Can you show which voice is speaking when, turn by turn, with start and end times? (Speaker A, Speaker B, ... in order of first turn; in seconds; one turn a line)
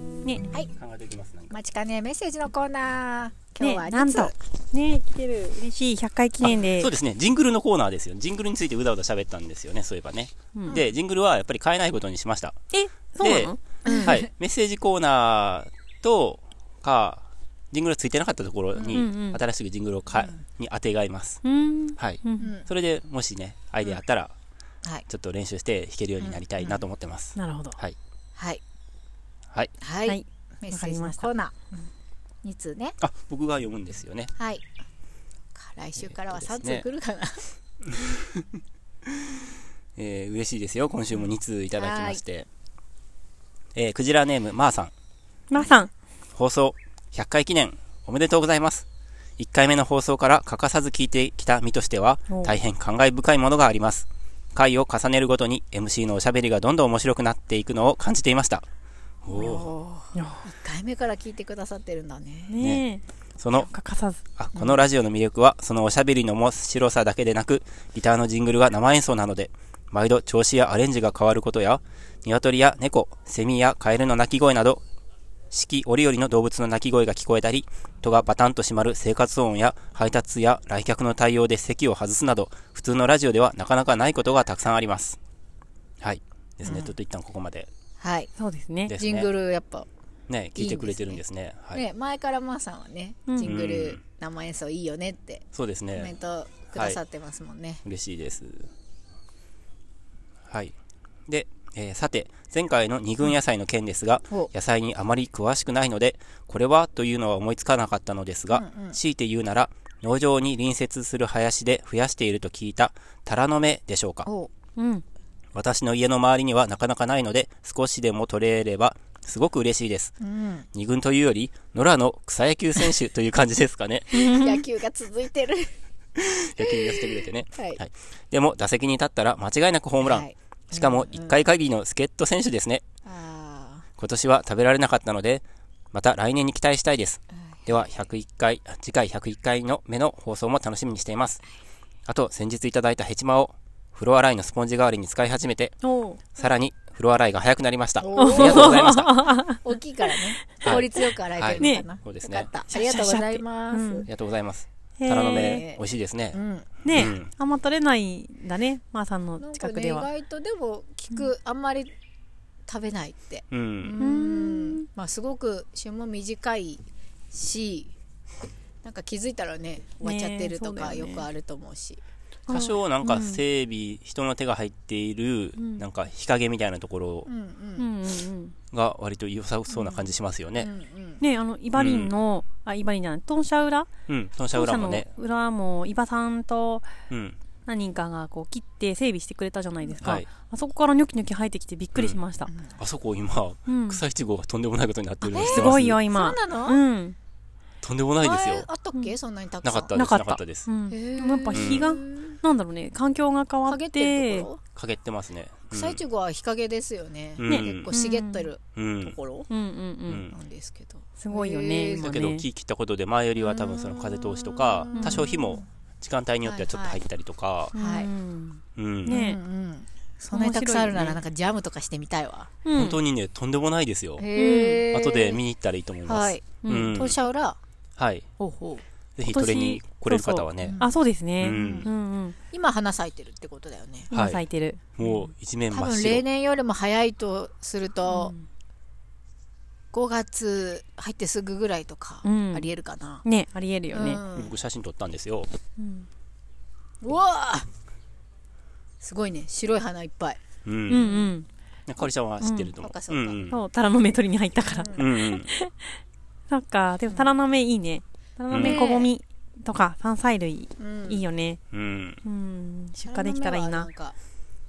Speaker A: 0.8-1.5
Speaker B: 1.5-4.3
Speaker C: 3.6-6.9
Speaker A: 6.4-12.6
Speaker C: 12.7-14.1
Speaker A: 13.2-21.4
Speaker B: 13.8-14.2
Speaker B: 18.8-19.0
Speaker C: 18.9-19.4
Speaker C: 21.4-22.5
Speaker A: 22.0-24.3
Speaker B: 22.4-22.7
Speaker A: 25.1-27.9
Speaker B: 26.2-26.8
Speaker C: 27.4-27.8
Speaker B: 28.4-28.6
Speaker B: 29.8-31.9
Speaker C: 30.1-31.3
Speaker B: 32.4-33.0
Speaker A: 33.0-34.3
Speaker B: 34.4-34.7
Speaker B: 35.5-37.5
Speaker A: 36.1-36.9
Speaker A: 37.9-38.5
Speaker A: 40.0-42.5
Speaker B: 41.8-42.2
Speaker A: 43.8-44.9
Speaker C: 45.5-45.9
Speaker A: 46.4-48.9
Speaker A: 49.4-58.7
Speaker A: 59.2-59.7
Speaker B: 59.3-62.6
Speaker C: 60.1-60.4
Speaker C: 62.5-63.0
Speaker A: 62.6-62.8
Speaker A: 63.4-63.7
Speaker C: 63.5-64.2
Speaker A: 64.4-74.8
Speaker A: 75.5-85.2
Speaker A: 86.0-87.7
Speaker B: 86.6-86.9
Speaker B: 88.0-88.3
Speaker C: 88.4-88.9
Speaker A: 88.9-89.3
Speaker B: 88.9-89.9
Speaker A: 90.3-91.8
Speaker B: 90.6-91.2
Speaker B: 91.7-95.4
Speaker C: 93.3-93.5
Speaker A: 93.4-94.0
Speaker A: 95.5-96.1
Speaker B: 96.0-97.8
Speaker A: 96.7-97.0
Speaker A: 97.8-98.7
Speaker A: 100.5-100.8
Speaker A: 101.3-114.3
Speaker B: 108.5-109.0
Speaker B: 114.2-114.5
Speaker C: 114.8-115.0
Speaker A: 115.5-120.2
Speaker B: 120.2-120.7
Speaker A: 120.7-124.2
Speaker B: 124.1-125.7
Speaker C: 124.1-124.6
Speaker A: 126.2-132.8
Speaker B: 126.6-127.8
Speaker B: 130.0-131.4
Speaker B: 133.1-133.8
Speaker A: 134.0-141.4
Speaker B: 137.5-137.8
Speaker A: 142.1-145.8
Speaker C: 145.8-146.2
Speaker A: 146.3-149.1
Speaker B: 148.0-149.0
Speaker C: 148.2-150.3
Speaker B: 149.5-154.1
Speaker A: 150.6-152.5
Speaker C: 151.6-151.8
Speaker C: 152.7-154.1
Speaker A: 154.1-157.3
Speaker C: 155.0-155.6
Speaker B: 155.1-155.8
Speaker B: 156.3-156.7
Speaker C: 156.8-160.1
Speaker B: 159.4-161.9
Speaker B: 162.7-167.9
Speaker A: 163.5-163.9
Speaker C: 164.0-164.8
Speaker B: 168.8-172.0
Speaker C: 170.0-171.3
Speaker C: 172.5-173.4
Speaker A: 172.5-177.3
Speaker C: 175.6-175.8
Speaker B: 177.3-177.9
Speaker C: 177.8-178.6
Speaker A: 178.7-180.7
Speaker C: 179.8-180.0
Speaker B: 180.6-181.2
Speaker C: 181.2-183.9
Speaker A: 181.8-182.1
Speaker A: 184.1-185.1
Speaker C: 184.5-186.9
Speaker A: 187.1-187.4
Speaker C: 187.7-192.5
Speaker A: 190.0-190.3
Speaker A: 192.8-196.0
Speaker C: 193.7-194.0
Speaker C: 195.2-197.2
Speaker B: 195.3-196.8
Speaker A: 197.8-198.7
Speaker B: 198.2-200.0
Speaker A: 199.6-200.7
Speaker C: 200.0-204.5
Speaker B: 200.9-202.3
Speaker A: 201.5-201.9
Speaker B: 203.7-204.6
Speaker A: 204.8-206.0
Speaker B: 205.7-209.5
Speaker A: 207.4-207.9
Speaker C: 207.5-208.5
Speaker A: 208.8-209.2
Speaker C: 209.5-210.2
Speaker A: 210.1-210.3
Speaker B: 210.3-212.1
Speaker C: 211.2-212.4
Speaker A: 212.0-217.7
Speaker B: 213.4-215.6
Speaker C: 214.9-215.3
Speaker B: 216.4-217.0
Speaker C: 217.7-219.4
Speaker B: 217.7-218.1
Speaker A: 218.8-219.2
Speaker B: 219.1-222.6
Speaker C: 220.3-221.2
Speaker C: 222.7-223.0
Speaker A: 222.7-224.3
Speaker B: 224.2-225.4
Speaker C: 224.3-224.8
Speaker A: 224.9-227.2
Speaker B: 226.1-227.6
Speaker C: 226.6-226.9
Speaker A: 228.0-228.3
Speaker B: 228.4-228.8
Speaker A: 229.2-230.8
Speaker C: 229.3-232.3
Speaker B: 230.6-231.9
Speaker A: 231.4-231.9
Speaker B: 232.5-234.1
Speaker C: 234.1-234.8
Speaker A: 234.1-234.4
Speaker A: 234.9-236.2
Speaker B: 235.7-238.3
Speaker C: 238.1-238.4
Speaker B: 239.9-243.2
Speaker C: 242.2-242.7
Speaker C: 243.2-244.2
Speaker B: 243.9-244.5
Speaker A: 244.3-245.5
Speaker C: 245.8-246.1
Speaker B: 247.0-247.7
Speaker B: 249.0-251.3
Speaker A: 250.7-251.1
Speaker C: 250.9-251.5
Speaker A: 251.9-253.6
Speaker C: 252.4-252.7
Speaker B: 252.8-253.4
Speaker C: 253.5-255.9
Speaker B: 254.6-255.1
Speaker A: 254.9-255.5
Speaker C: 256.5-261.6
Speaker A: 258.5-258.8
Speaker B: 258.6-259.1
Speaker B: 260.8-261.2
Speaker A: 261.7-262.2
Speaker C: 262.2-263.9
Speaker B: 263.1-264.2